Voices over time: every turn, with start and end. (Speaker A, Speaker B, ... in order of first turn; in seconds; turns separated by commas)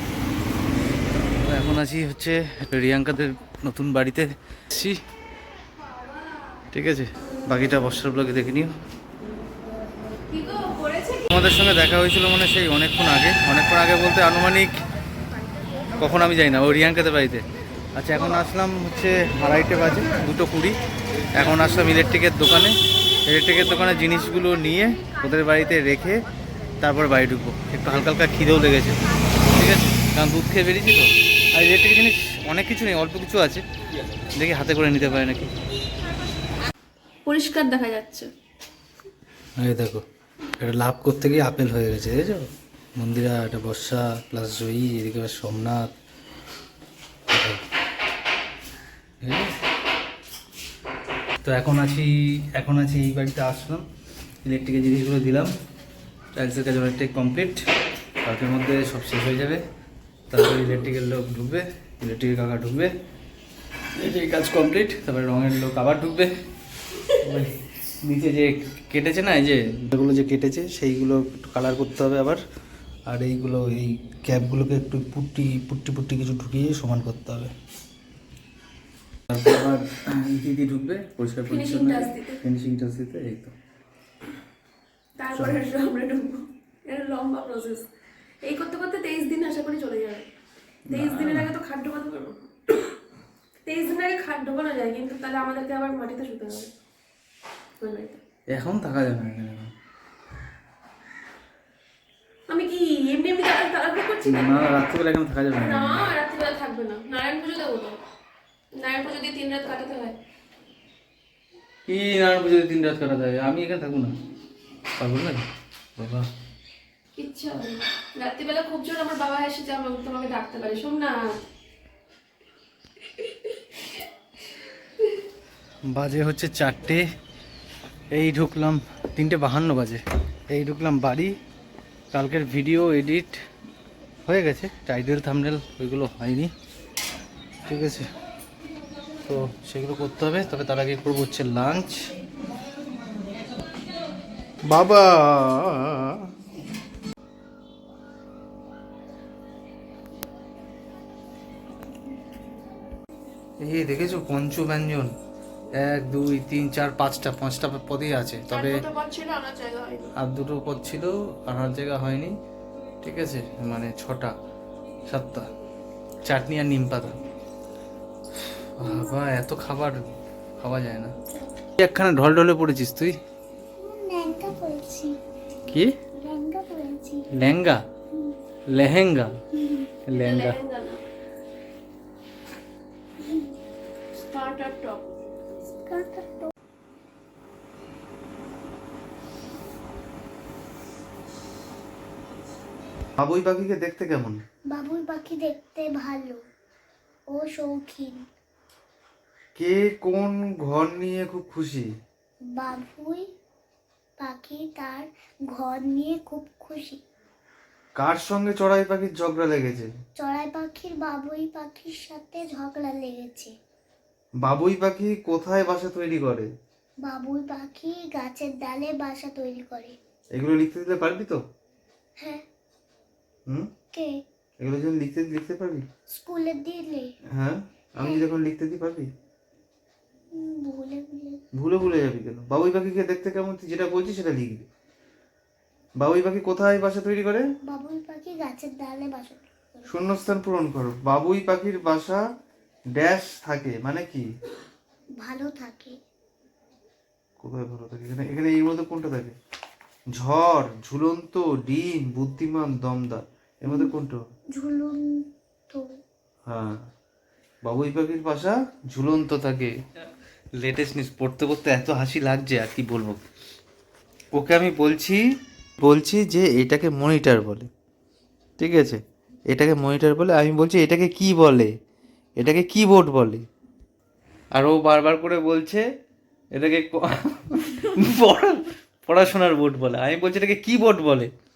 Speaker A: 1.4-5.0, Speaker A: 6.7-8.7, Speaker B: 10.3-11.3, Speaker A: 11.3-14.8, Speaker A: 15.9-20.8, Speaker A: 21.3-26.2, Speaker A: 26.8-33.6, Speaker A: 34.4-35.5, Speaker B: 37.3-38.3, Speaker A: 39.6-40.0, Speaker A: 40.6-45.9, Speaker A: 47.3-47.6, Speaker A: 49.2-49.5, Speaker A: 51.4-53.8, Speaker A: 54.4-55.5, Speaker A: 56.3-57.6, Speaker A: 58.2-59.6, Speaker A: 60.3-62.9, Speaker A: 64.0-66.3, Speaker A: 67.2-72.4, Speaker A: 73.1-77.5, Speaker A: 79.3-83.5, Speaker B: 81.5-82.4, Speaker B: 85.2-87.9, Speaker A: 85.3-85.6, Speaker B: 88.4-90.3, Speaker A: 90.9-91.5, Speaker B: 90.9-93.0, Speaker B: 93.7-96.7, Speaker B: 97.8-98.2, Speaker A: 98.5-99.7, Speaker B: 102.5-104.8, Speaker A: 104.2-106.1, Speaker B: 105.5-108.0, Speaker B: 108.8-110.2, Speaker A: 111.9-114.1, Speaker A: 115.0-115.4, Speaker A: 116.0-116.3, Speaker B: 117.2-121.2, Speaker A: 125.9-127.0, Speaker A: 128.1-131.4, Speaker A: 132.1-133.4, Speaker A: 134.3-136.5, Speaker A: 137.7-138.1, Speaker A: 139.3-142.1, Speaker A: 144.7-146.3, Speaker A: 153.6-155.1, Speaker A: 155.8-158.8, Speaker B: 158.5-160.1, Speaker A: 160.2-162.3, Speaker A: 163.0-164.3, Speaker A: 165.1-165.5, Speaker A: 166.3-167.2, Speaker A: 168.8-170.1, Speaker C: 168.8-169.1, Speaker A: 170.6-171.1, Speaker C: 171.2-171.5, Speaker A: 171.8-173.2, Speaker C: 173.8-175.2, Speaker A: 175.7-176.0, Speaker C: 176.2-177.3, Speaker A: 177.3-177.8, Speaker A: 178.7-179.4, Speaker A: 180.1-180.6, Speaker B: 180.1-181.0, Speaker B: 184.2-185.1, Speaker C: 185.9-186.5, Speaker A: 193.2-194.4, Speaker C: 194.7-196.4, Speaker C: 197.3-198.2, Speaker A: 199.6-201.9, Speaker C: 202.6-203.2, Speaker C: 204.2-207.0, Speaker A: 208.0-209.9, Speaker C: 210.2-213.5, Speaker A: 214.4-216.5, Speaker C: 217.0-219.9, Speaker A: 220.3-221.4, Speaker A: 224.6-225.8, Speaker C: 226.1-227.1, Speaker A: 227.3-229.1, Speaker C: 228.0-228.3, Speaker C: 230.3-231.4, Speaker A: 231.6-234.7, Speaker A: 236.0-237.4, Speaker C: 237.7-239.9, Speaker A: 239.9-242.2, Speaker A: 242.9-244.2, Speaker C: 245.2-246.0, Speaker A: 247.4-249.3, Speaker A: 250.1-254.2, Speaker C: 254.5-255.8, Speaker A: 256.5-256.8, Speaker A: 257.6-259.7, Speaker A: 260.6-263.2, Speaker A: 264.3-265.2, Speaker A: 265.8-267.7, Speaker A: 268.6-271.7, Speaker A: 272.4-273.5, Speaker A: 274.5-275.8, Speaker A: 276.5-281.3